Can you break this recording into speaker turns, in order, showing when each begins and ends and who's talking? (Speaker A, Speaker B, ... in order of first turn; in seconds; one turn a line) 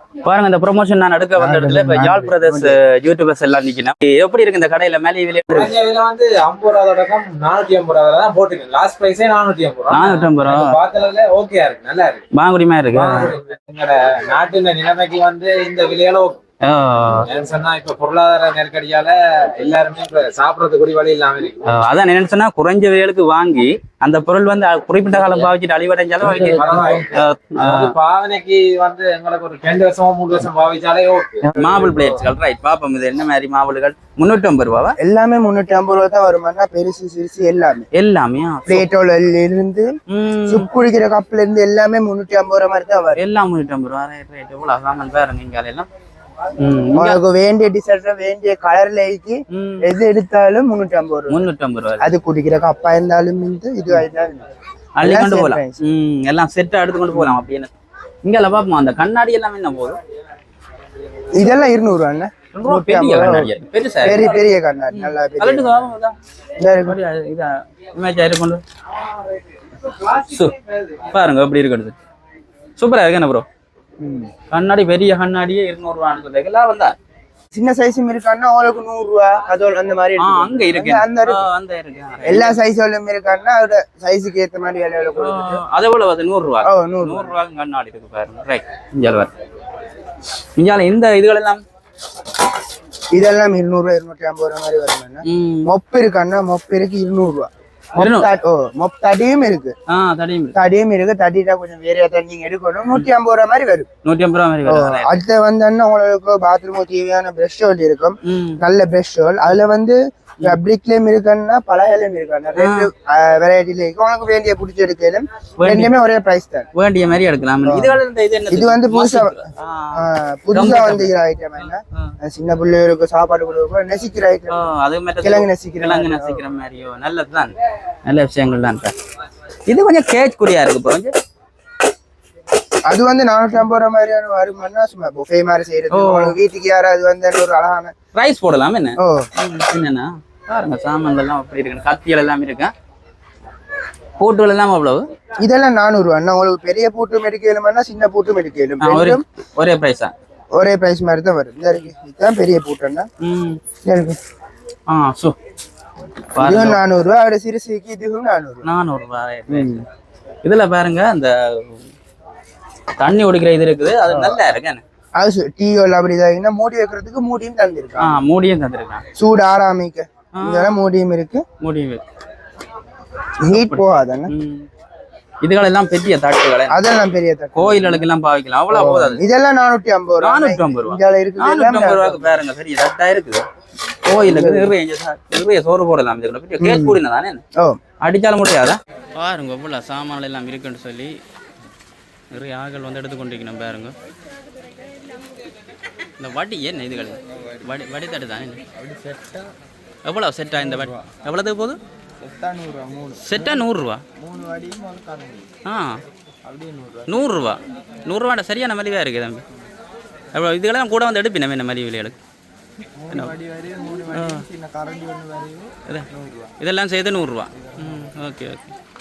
Speaker A: 0.2-5.7
Speaker B: 1.4-2.8
Speaker C: 5.5-12.2
Speaker A: 9.9-10.8
Speaker A: 12.3-13.3
Speaker C: 12.9-16.4
Speaker A: 16.6-17.3
Speaker C: 17.2-21.6
Speaker A: 21.6-27.9
Speaker C: 26.2-32.2
Speaker A: 31.5-35.0
Speaker B: 35.0-37.9
Speaker A: 37.9-38.9
Speaker B: 38.7-39.9
Speaker A: 40.1-40.7
Speaker B: 40.5-43.2
Speaker A: 43.1-45.9
Speaker A: 46.6-47.2
Speaker B: 46.9-51.4
Speaker A: 49.5-49.9
Speaker A: 51.3-52.1
Speaker B: 52.0-54.5
Speaker A: 55.0-57.7
Speaker B: 55.0-55.8
Speaker B: 57.1-57.5
Speaker A: 58.2-60.0
Speaker B: 61.3-66.0
Speaker A: 62.5-64.4
Speaker A: 64.9-66.2
Speaker B: 66.6-67.0
Speaker A: 66.8-68.6
Speaker A: 69.9-72.0
Speaker A: 72.8-73.4
Speaker B: 74.0-74.3
Speaker A: 74.5-77.0
Speaker B: 77.5-81.5
Speaker A: 80.2-82.5
Speaker B: 82.2-85.6
Speaker A: 85.2-89.3
Speaker B: 86.6-87.4
Speaker A: 90.5-91.6
Speaker B: 93.1-99.7
Speaker A: 95.2-95.7
Speaker A: 98.0-98.3
Speaker A: 99.9-100.5
Speaker B: 100.5-103.9
Speaker A: 104.0-105.2
Speaker B: 104.6-116.7
Speaker A: 108.2-108.6
Speaker A: 112.6-112.9
Speaker A: 115.6-115.9
Speaker A: 116.7-120.0
Speaker B: 117.6-124.6
Speaker A: 120.5-121.1
Speaker A: 124.5-127.5
Speaker B: 125.2-126.4
Speaker A: 128.1-128.9
Speaker A: 129.7-131.1
Speaker B: 132.9-137.9
Speaker A: 135.9-136.4
Speaker A: 138.1-142.7
Speaker B: 139.0-139.3
Speaker A: 144.2-145.0
Speaker B: 145.4-149.2
Speaker A: 148.8-150.1
Speaker B: 150.5-153.1
Speaker A: 153.2-153.6
Speaker B: 153.8-154.2
Speaker A: 154.9-155.3
Speaker A: 156.3-156.8
Speaker B: 156.4-158.6
Speaker A: 158.6-159.8
Speaker B: 159.5-159.8
Speaker A: 160.4-161.8
Speaker A: 163.0-164.8
Speaker B: 164.1-164.4
Speaker B: 165.2-168.2
Speaker A: 168.0-169.0
Speaker B: 169.2-171.4
Speaker A: 170.3-170.7
Speaker A: 171.6-172.0
Speaker B: 173.4-174.3
Speaker A: 173.4-174.7
Speaker A: 175.4-176.8
Speaker B: 176.7-178.1
Speaker A: 177.6-179.2
Speaker B: 178.7-182.3
Speaker A: 180.2-183.4
Speaker A: 184.0-187.4
Speaker B: 184.2-184.7
Speaker B: 186.6-187.0
Speaker A: 188.0-191.2
Speaker A: 192.3-193.9
Speaker A: 196.2-198.6
Speaker B: 198.8-199.5
Speaker A: 200.0-201.8
Speaker B: 200.6-201.0
Speaker B: 202.2-203.7
Speaker A: 203.2-204.0
Speaker B: 204.2-205.5
Speaker A: 205.6-206.0
Speaker B: 206.5-207.2
Speaker A: 207.1-209.4
Speaker A: 210.3-212.2
Speaker B: 213.0-216.5
Speaker A: 214.1-214.4
Speaker A: 216.6-218.8
Speaker B: 217.6-218.1